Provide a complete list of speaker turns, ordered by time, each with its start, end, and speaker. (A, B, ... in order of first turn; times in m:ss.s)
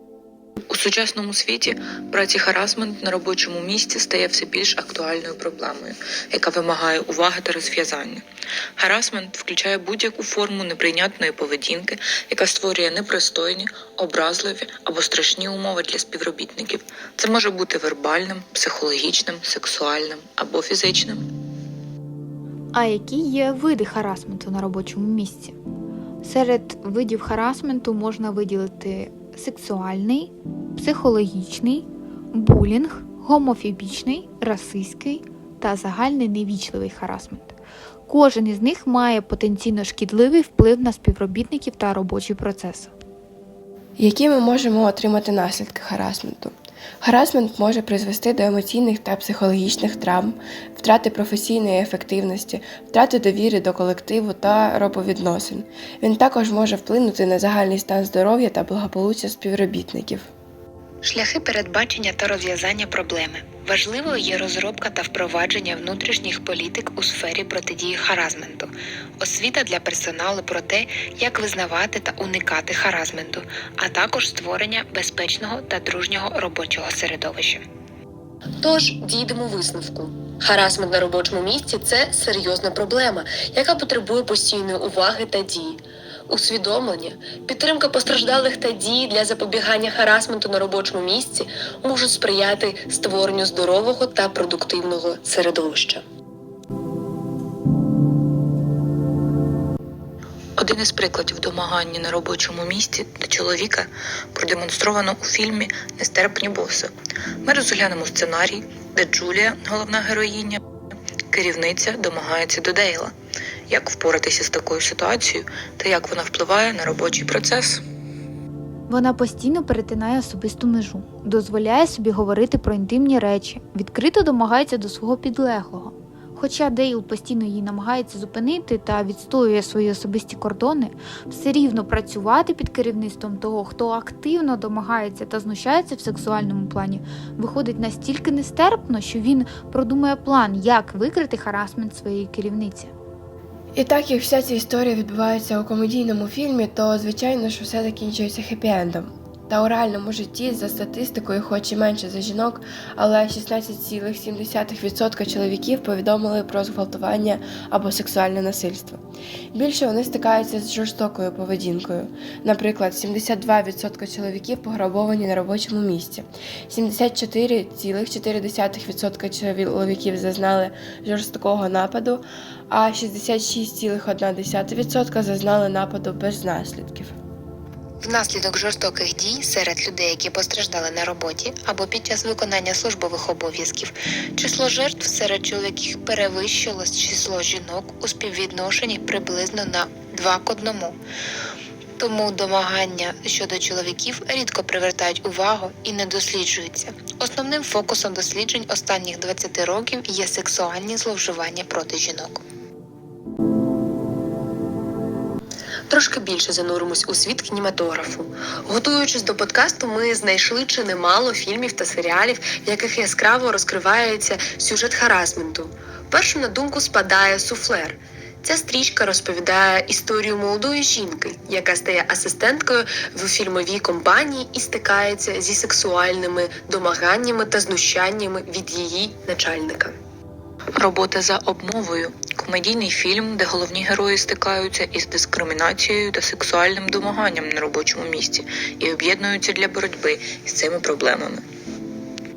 0:00.7-0:08.2 A
0:08.8-0:21.2 A
0:22.7-0:25.6 B
0:26.2-0:37.6 B
0:38.1-0:42.9 B
0:44.0-1:00.3 C
1:01.0-1:17.6 D
1:18.6-1:36.0 E
1:40.6-1:46.9 A
1:47.4-1:50.6 A
1:51.3-1:53.1 A
1:53.7-1:57.8 A
1:58.9-2:22.9 B
2:23.8-2:39.0 C
2:39.5-2:57.2 C
2:58.0-3:11.0 D
3:12.0-3:22.4 D
3:25.9-3:49.9 E
3:50.8-4:01.4 A